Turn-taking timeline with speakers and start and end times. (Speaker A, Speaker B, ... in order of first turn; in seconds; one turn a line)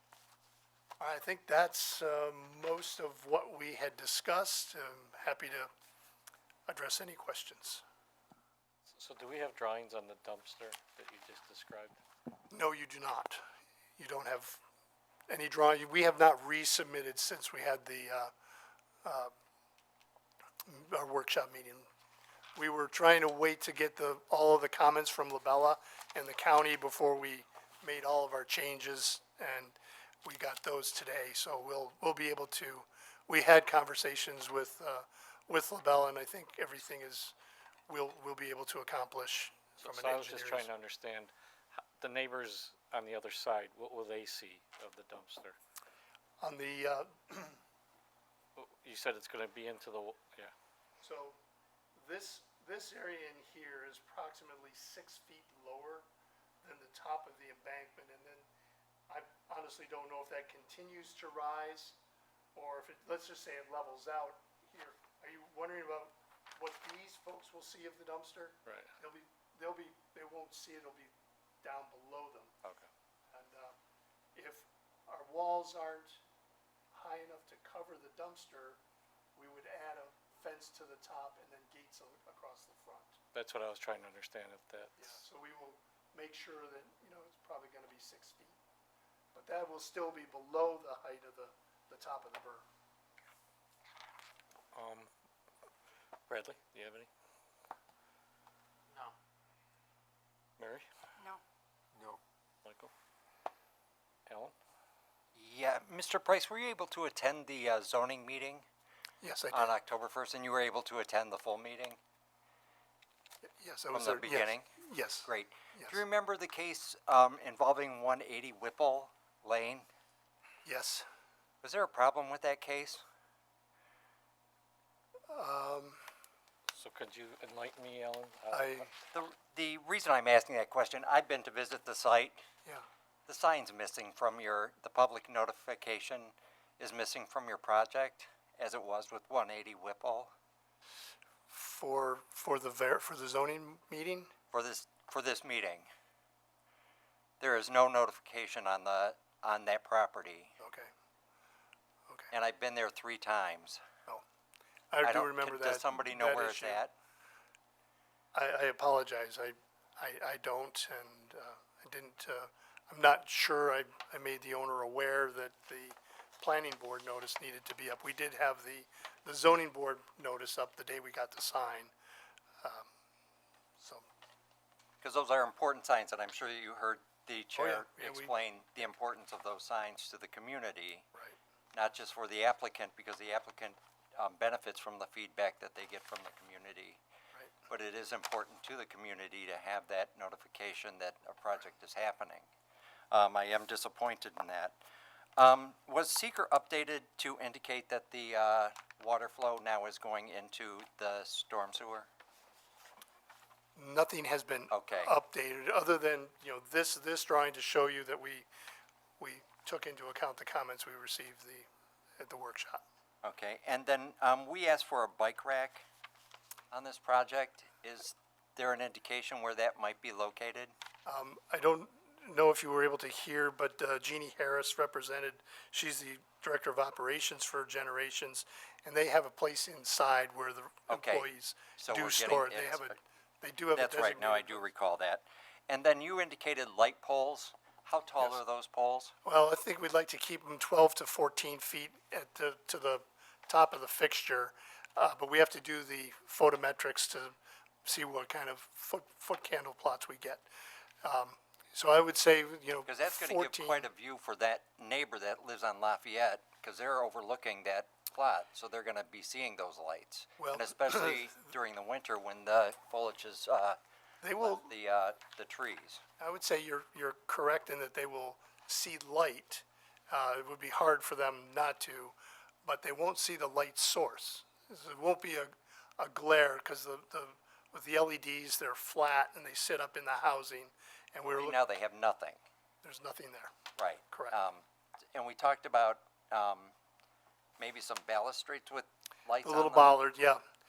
Speaker A: 1.0-5.7
Speaker A: 6.7-7.8
Speaker B: 8.9-12.0
Speaker A: 12.5-13.4
Speaker A: 14.0-14.6
Speaker A: 15.3-18.3
Speaker A: 19.0-19.3
Speaker A: 20.6-21.9
Speaker A: 22.6-37.3
Speaker A: 37.9-40.7
Speaker B: 39.8-45.6
Speaker A: 46.4-47.6
Speaker B: 48.5-50.5
Speaker A: 51.0-51.4
Speaker A: 52.0-56.0
Speaker A: 56.6-58.5
Speaker A: 59.1-62.0
Speaker A: 62.5-71.1
Speaker B: 68.7-68.9
Speaker A: 71.6-72.5
Speaker A: 73.3-73.7
Speaker A: 74.3-76.2
Speaker A: 76.9-78.8
Speaker A: 79.3-83.2
Speaker B: 83.3-85.1
Speaker A: 85.0-88.6
Speaker A: 89.3-92.7
Speaker B: 94.7-95.1
Speaker B: 96.3-97.1
Speaker B: 100.6-100.9
Speaker B: 102.6-102.9
Speaker B: 104.3-104.5
Speaker C: 105.3-108.6
Speaker A: 109.2-109.7
Speaker C: 109.5-112.0
Speaker A: 113.6-116.0
Speaker C: 113.9-114.7
Speaker C: 115.2-119.8
Speaker A: 120.6-121.1
Speaker C: 121.6-123.0
Speaker A: 125.3-126.0
Speaker B: 126.7-128.9
Speaker A: 128.5-128.9
Speaker C: 129.1-132.4
Speaker C: 133.3-140.3
Speaker A: 141.5-144.3
Speaker C: 144.5-145.9
Speaker C: 147.4-150.5
Speaker A: 150.6-150.9
Speaker C: 152.3-153.8
Speaker A: 154.9-156.8
Speaker C: 155.0-156.9
Speaker A: 158.3-171.9
Speaker A: 172.6-172.9
Speaker A: 173.8-174.1
Speaker C: 175.0-181.1
Speaker A: 177.5-178.3
Speaker C: 181.7-187.0
Speaker C: 187.7-192.5
Speaker C: 193.1-194.8
Speaker C: 195.4-202.1
Speaker A: 203.8-208.5
Speaker C: 204.7-205.1
Speaker A: 209.2-211.7
Speaker A: 212.2-212.8
Speaker C: 213.2-215.8
Speaker C: 216.7-220.7
Speaker A: 221.1-234.7
Speaker C: 230.9-232.9
Speaker C: 233.7-239.1
Speaker A: 239.2-250.4
Speaker A: 251.0-253.9
Speaker C: 252.8-263.8
Speaker A: 260.4-261.2
Speaker A: 264.2-264.7
Speaker C: 264.4-266.0
Speaker A: 266.2-281.6
Speaker C: 281.4-282.4
Speaker A: 282.8-283.5
Speaker C: 283.8-286.7
Speaker A: 284.1-284.4
Speaker C: 287.6-290.0
Speaker A: 289.4-290.4